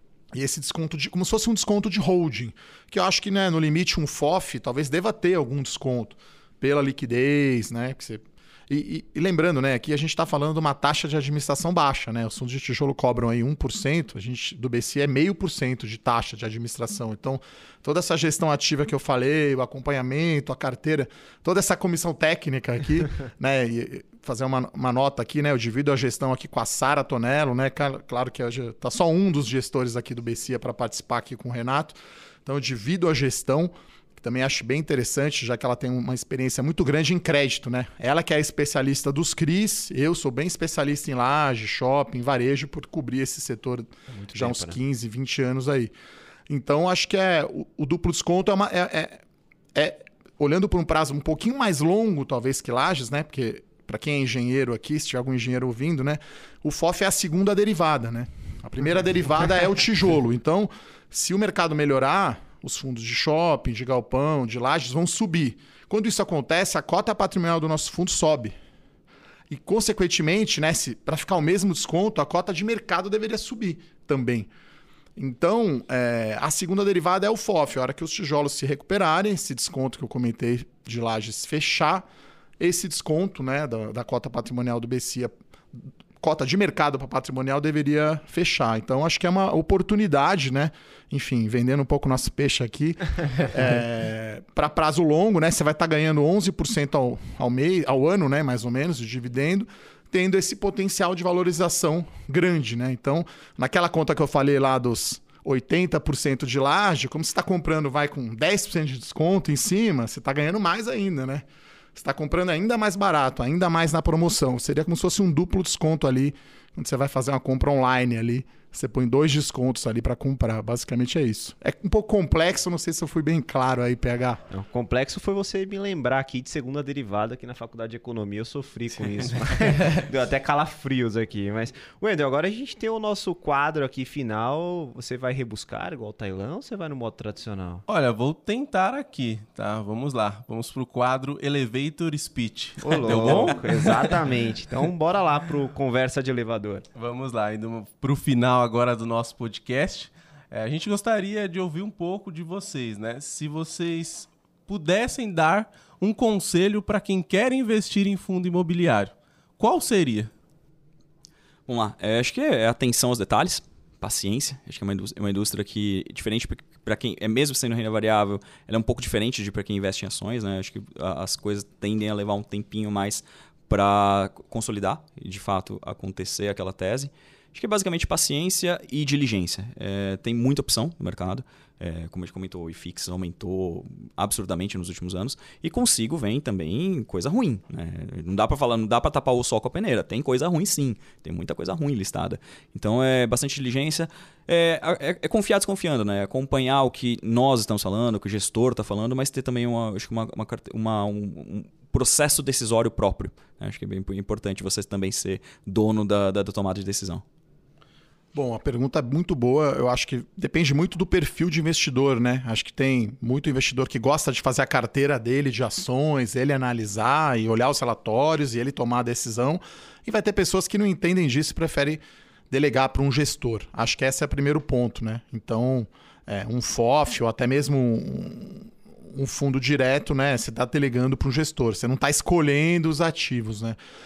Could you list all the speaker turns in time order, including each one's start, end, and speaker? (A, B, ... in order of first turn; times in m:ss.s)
0:00.3-0:45.9 A
0:44.1-0:44.8 B
0:46.5-0:49.2 A
0:49.7-1:08.6 A
1:09.5-1:14.5 A
1:15.2-1:22.1 A
1:22.6-2:04.4 A
2:04.5-2:17.8 B
2:17.9-2:24.2 C
2:22.8-2:26.8 B
2:27.0-2:40.3 C
2:41.7-3:27.2 D
3:28.3-3:53.8 A